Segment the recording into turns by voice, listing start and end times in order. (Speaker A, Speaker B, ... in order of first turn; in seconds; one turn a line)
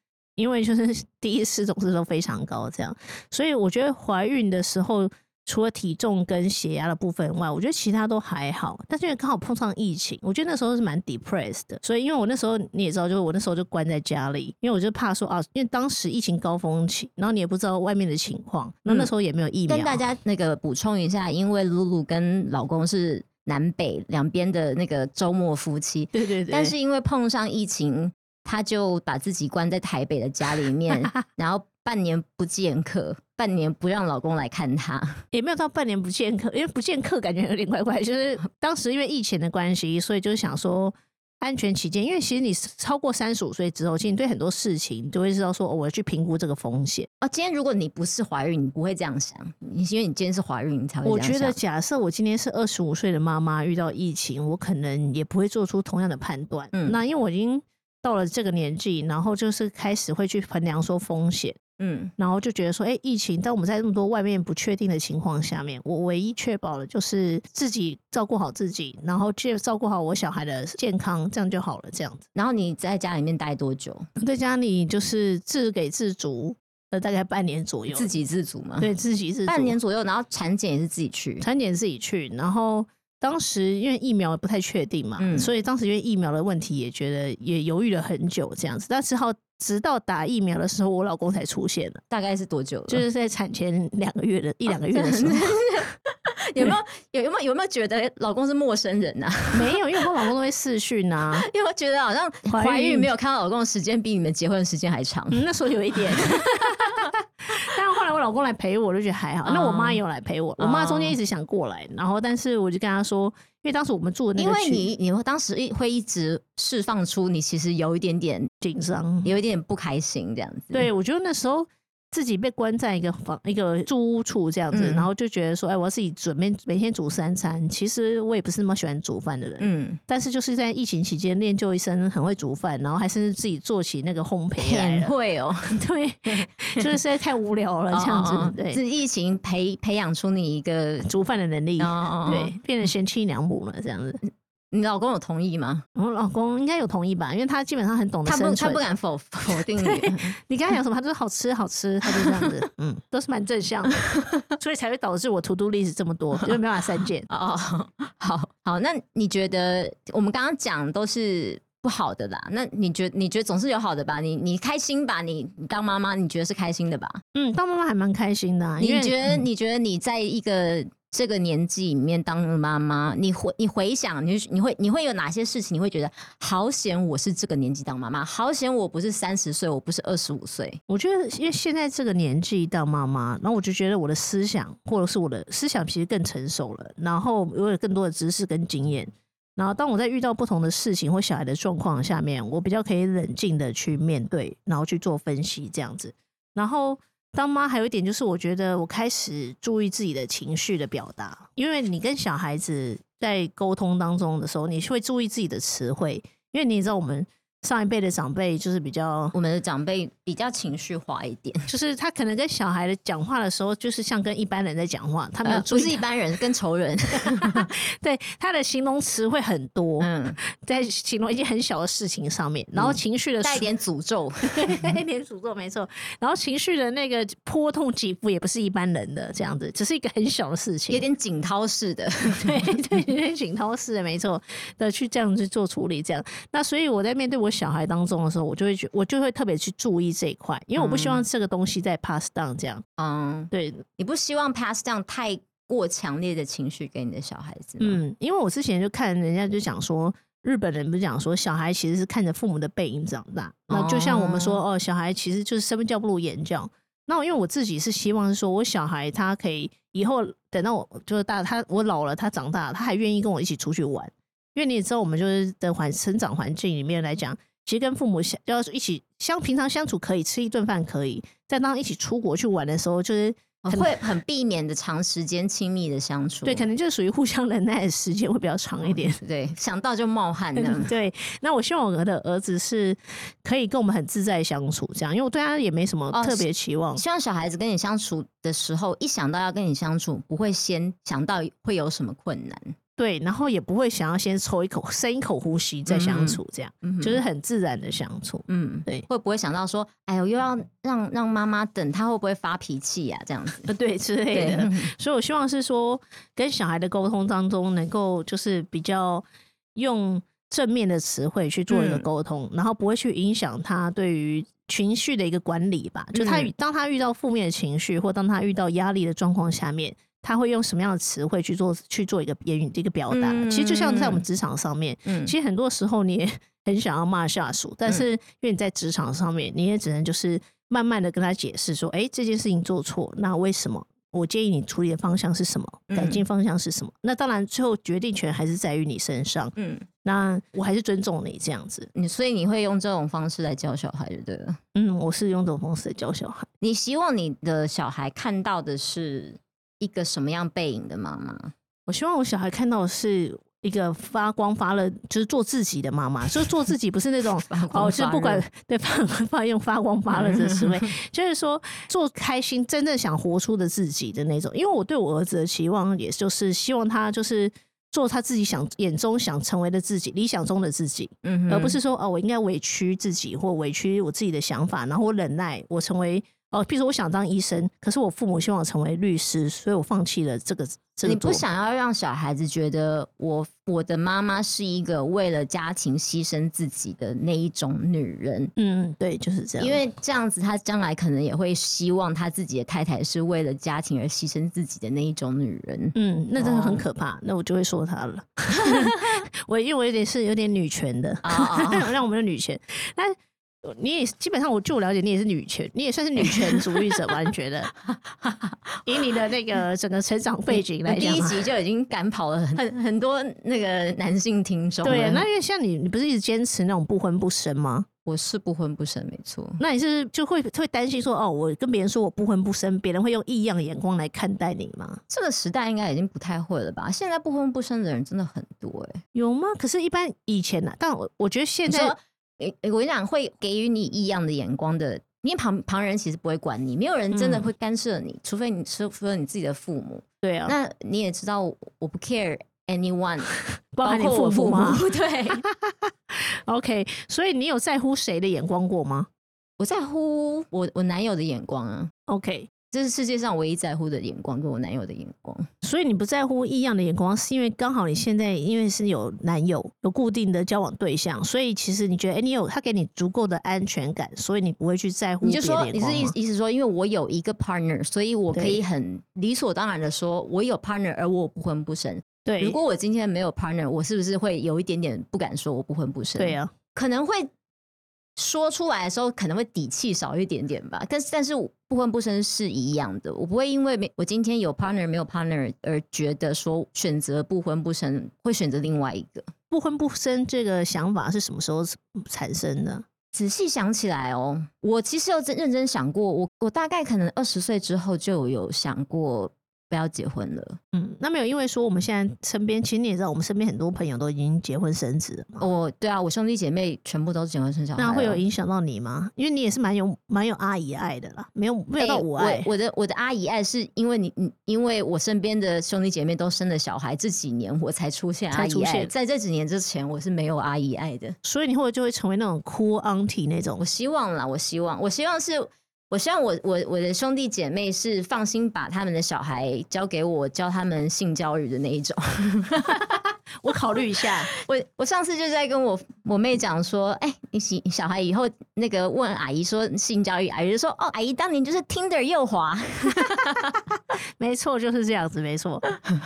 Speaker A: 0.4-20.0
Speaker B: 19.7-35.2
Speaker A: 26.1-26.8
Speaker A: 35.3-47.1
Speaker B: 47.2-51.6
Speaker A: 51.0-61.6
Speaker B: 56.7-57.0
Speaker B: 61.8-62.1
Speaker A: 62.2-72.2
Speaker B: 72.3-74.1
Speaker A: 74.2-78.1
Speaker B: 77.9-78.9
Speaker A: 78.8-79.8
Speaker B: 79.5-81.5
Speaker A: 81.4-92.0
Speaker B: 85.2-85.5
Speaker B: 92.1-93.1
Speaker A: 92.9-95.6
Speaker B: 94.7-100.1
Speaker A: 99.5-101.5
Speaker B: 101.3-107.1
Speaker A: 102.5-103.1
Speaker A: 105.3-114.9
Speaker B: 109.5-110.0
Speaker B: 110.6-111.2
Speaker B: 114.4-118.5
Speaker A: 118.6-119.3
Speaker B: 119.2-120.9
Speaker A: 120.7-135.1
Speaker B: 124.7-125.1
Speaker B: 129.6-130.0
Speaker B: 134.6-136.9
Speaker A: 135.7-138.8
Speaker B: 137.9-141.1
Speaker A: 141.1-144.2
Speaker B: 141.8-142.6
Speaker B: 144.2-145.8
Speaker A: 146.0-148.8
Speaker B: 148.3-150.4
Speaker A: 149.5-154.0
Speaker B: 152.2-152.5
Speaker B: 154.0-154.5
Speaker A: 154.6-157.3
Speaker B: 157.3-167.2
Speaker A: 167.3-169.5
Speaker B: 168.8-180.8
Speaker A: 180.9-209.3
Speaker B: 209.3-211.7
Speaker A: 211.7-216.0
Speaker B: 215.4-217.7
Speaker A: 217.2-223.7
Speaker B: 220.0-220.4
Speaker B: 222.8-224.9
Speaker A: 224.5-231.0
Speaker B: 230.9-232.8
Speaker A: 232.4-242.8
Speaker B: 240.8-241.2
Speaker B: 243.0-248.0
Speaker A: 243.5-243.8
Speaker A: 247.8-274.0
Speaker B: 253.7-254.6
Speaker B: 273.6-276.7
Speaker A: 276.4-279.2
Speaker B: 278.8-280.9
Speaker A: 280.6-287.0
Speaker B: 286.1-292.8
Speaker A: 293.0-299.1
Speaker B: 295.9-297.2
Speaker B: 298.5-303.7
Speaker A: 303.7-339.5
Speaker B: 304.3-304.9
Speaker B: 311.7-312.1
Speaker B: 316.1-316.5
Speaker B: 323.1-324.2
Speaker B: 325.1-325.3
Speaker B: 335.9-336.2
Speaker B: 339.6-339.9
Speaker A: 340.0-341.9
Speaker B: 341.9-344.6
Speaker A: 344.8-346.5
Speaker B: 346.6-351.5
Speaker A: 351.9-381.4
Speaker B: 357.4-358.4
Speaker B: 360.1-360.9
Speaker B: 371.2-371.8
Speaker B: 381.0-388.5
Speaker A: 388.6-389.8
Speaker B: 389.6-396.8
Speaker A: 395.9-407.7
Speaker B: 398.6-399.2
Speaker B: 401.2-401.9
Speaker B: 406.2-407.1
Speaker B: 407.8-409.0
Speaker A: 408.9-411.4
Speaker B: 410.6-415.3
Speaker A: 414.8-417.9
Speaker B: 418.1-419.6
Speaker A: 419.6-425.0
Speaker B: 425.1-429.0
Speaker A: 429.1-431.9
Speaker B: 431.7-445.4
Speaker A: 437.1-437.5
Speaker A: 440.2-440.6
Speaker A: 443.7-444.8
Speaker A: 445.4-449.1
Speaker B: 449.6-451.9
Speaker A: 452.1-452.5
Speaker B: 452.7-455.5
Speaker A: 455.6-466.1
Speaker B: 465.2-477.3
Speaker A: 468.3-468.6
Speaker A: 472.2-472.6
Speaker A: 476.2-476.5
Speaker B: 478.2-489.3
Speaker A: 489.5-492.9
Speaker B: 493.1-500.6
Speaker A: 500.7-505.4
Speaker B: 505.4-508.2
Speaker A: 507.8-512.5
Speaker B: 511.8-521.2
Speaker A: 518.3-518.9
Speaker A: 521.2-523.6
Speaker B: 523.6-533.0
Speaker A: 533.4-534.3
Speaker B: 534.0-543.5
Speaker A: 543.0-543.4
Speaker A: 544.2-545.6